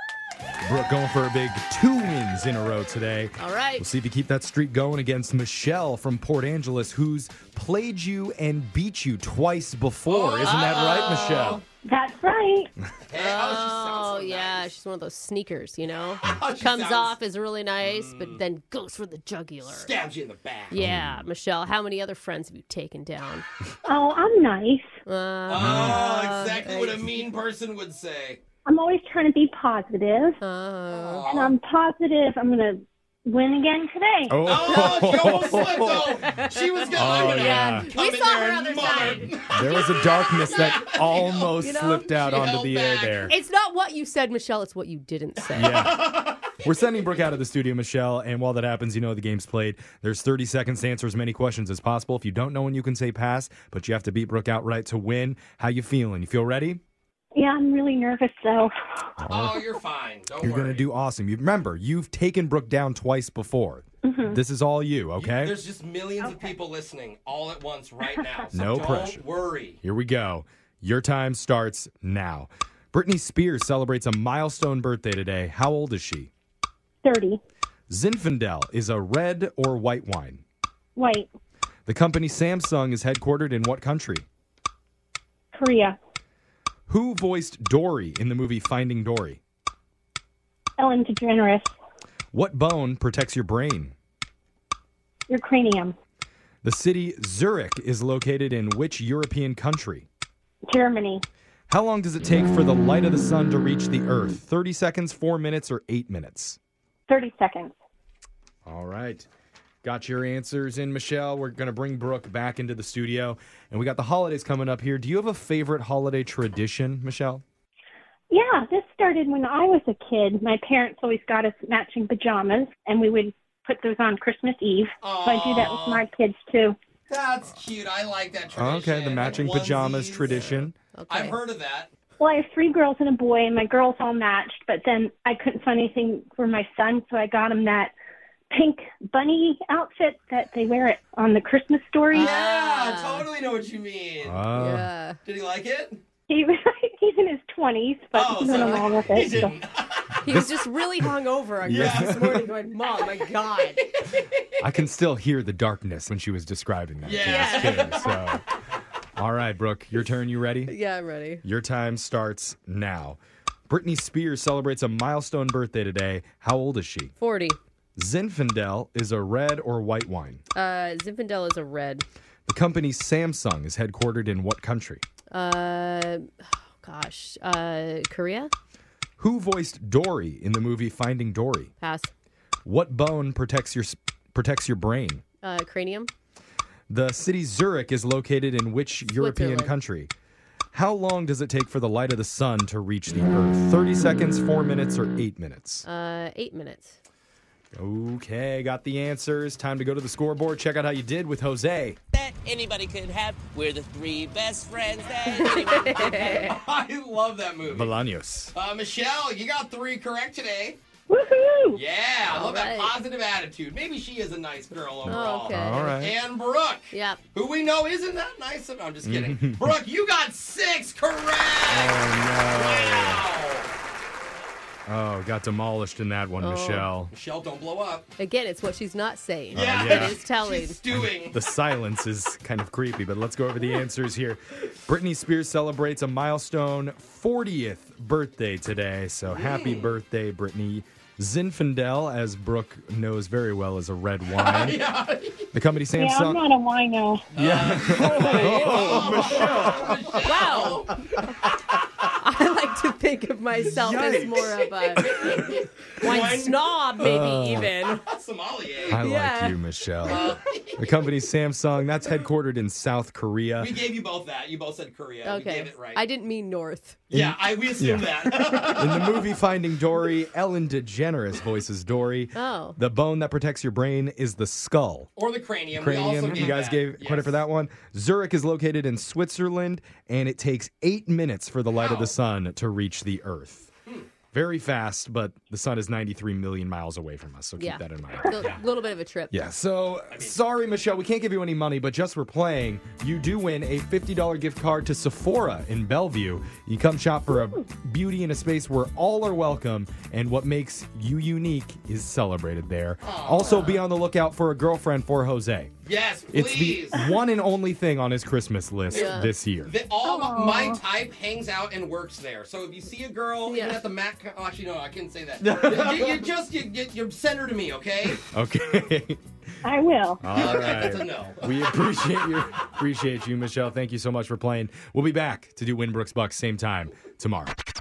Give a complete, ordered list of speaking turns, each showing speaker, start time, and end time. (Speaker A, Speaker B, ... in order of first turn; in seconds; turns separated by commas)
Speaker A: 0.6-11.6, Speaker B: 3.4-3.9, Speaker C: 10.1-11.6, Speaker D: 11.8-12.7, Speaker C: 13.1-14.7, Speaker B: 13.2-19.9, Speaker C: 16.2-17.2, Speaker C: 17.8-18.4, Speaker C: 19.6-20.8, Speaker B: 20.7-23.5, Speaker A: 20.8-21.2, Speaker D: 23.9-24.9, Speaker B: 25.1-27.1, Speaker C: 25.5-28.4, Speaker A: 25.6-26.0, Speaker D: 28.7-30.4, Speaker B: 30.4-31.3, Speaker C: 30.9-31.6, Speaker D: 31.3-34.8, Speaker A: 34.3-36.2, Speaker C: 34.4-43.3, Speaker B: 34.8-40.7, Speaker A: 36.9-37.9, Speaker A: 39.5-43.4, Speaker B: 41.6-42.1, Speaker B: 43.3-45.9, Speaker A: 45.5-56.8, Speaker C: 45.6-47.1, Speaker D: 57.4-59.0, Speaker A: 59.2-59.7, Speaker C: 59.3-60.9, Speaker A: 60.4-65.6, Speaker D: 64.0-64.4, Speaker C: 65.2-69.8, Speaker D: 66.2-66.5, Speaker A: 68.5-69.2, Speaker A: 69.8-76.3, Speaker D: 77.0-77.4, Speaker A: 77.9-80.4, Speaker D: 81.0-81.3, Speaker A: 81.9-84.3, Speaker D: 85.5-86.0, Speaker A: 86.9-89.4, Speaker D: 90.8-91.7, Speaker A: 92.3-93.9, Speaker D: 95.3-96.0, Speaker A: 96.6-100.1, Speaker D: 100.7-101.2, Speaker A: 101.7-106.6, Speaker D: 107.1-107.7, Speaker A: 108.7-109.3, Speaker A: 109.8-117.4, Speaker D: 118.3-126.8, Speaker C: 125.0-126.1, Speaker C: 127.1-131.9, Speaker A: 128.5-130.8, Speaker B: 130.9-131.4, Speaker D: 132.2-137.9, Speaker D: 138.5-142.4, Speaker C: 142.1-144.4, Speaker B: 142.1-143.3, Speaker A: 144.2-144.9, Speaker B: 144.5-145.2, Speaker C: 145.2-146.0, Speaker D: 146.3-149.6, Speaker C: 148.1-150.2, Speaker B: 148.4-149.0, Speaker B: 150.2-153.8, Speaker A: 150.2-151.1, Speaker A: 151.6-152.4, Speaker C: 151.7-154.8, Speaker A: 154.6-158.4, Speaker C: 157.0-158.2, Speaker B: 157.2-158.0, Speaker A: 159.2-160.8, Speaker B: 160.7-161.4, Speaker A: 161.4-167.1, Speaker B: 167.2-167.6, Speaker A: 168.0-170.4, Speaker B: 170.5-172.1, Speaker A: 172.5-175.0, Speaker B: 175.3-178.5, Speaker A: 179.2-181.7, Speaker B: 181.8-182.1, Speaker A: 182.7-185.2, Speaker B: 185.4-186.1, Speaker A: 186.9-190.1, Speaker B: 189.2-189.7, Speaker A: 190.7-195.9, Speaker B: 195.8-197.0, Speaker A: 197.7-202.0, Speaker E: 202.1-206.5, Speaker B: 205.3-206.5, Speaker C: 205.8-207.9, Speaker A: 207.7-208.5, Speaker C: 208.5-210.8, Speaker D: 211.1-211.8, Speaker C: 211.7-223.7, Speaker B: 212.3-212.9, Speaker A: 215.0-216.2, Speaker B: 215.1-216.1, Speaker B: 216.9-217.2, Speaker A: 219.0-219.7, Speaker A: 221.7-223.3, Speaker A: 224.9-227.1, Speaker B: 226.4-226.9, Speaker C: 227.1-228.1, Speaker B: 228.2-230.8, Speaker A: 229.5-230.2, Speaker C: 229.5-231.4, Speaker A: 230.9-244.8, Speaker C: 239.3-239.9, Speaker C: 244.3-245.5, Speaker A: 245.5-246.4, Speaker D: 246.0-247.3, Speaker C: 247.3-251.0, Speaker A: 247.3-251.3, Speaker B: 248.2-249.2, Speaker B: 250.2-251.0, Speaker B: 252.2-255.1, Speaker A: 253.6-254.5, Speaker C: 254.4-256.8, Speaker B: 256.0-258.0, Speaker A: 257.0-257.7, Speaker C: 257.8-259.0, Speaker A: 258.9-263.8, Speaker B: 259.0-259.6, Speaker C: 260.1-260.9, Speaker C: 263.6-266.0, Speaker B: 265.2-267.0, Speaker A: 267.1-275.1, Speaker C: 267.1-269.3, Speaker B: 272.4-272.8, Speaker C: 275.2-277.4, Speaker A: 275.7-283.7, Speaker C: 281.8-282.1, Speaker A: 284.3-288.6, Speaker B: 287.6-289.4, Speaker A: 289.3-305.7, Speaker C: 290.1-290.4, Speaker C: 303.0-303.7, Speaker C: 305.8-307.1, Speaker A: 306.3-309.7, Speaker C: 308.9-318.2, Speaker B: 308.9-309.3, Speaker D: 310.0-310.8, Speaker B: 313.5-313.8, Speaker A: 315.4-316.1, Speaker A: 318.3-319.2, Speaker D: 319.6-320.2, Speaker A: 320.2-327.5, Speaker C: 320.3-321.6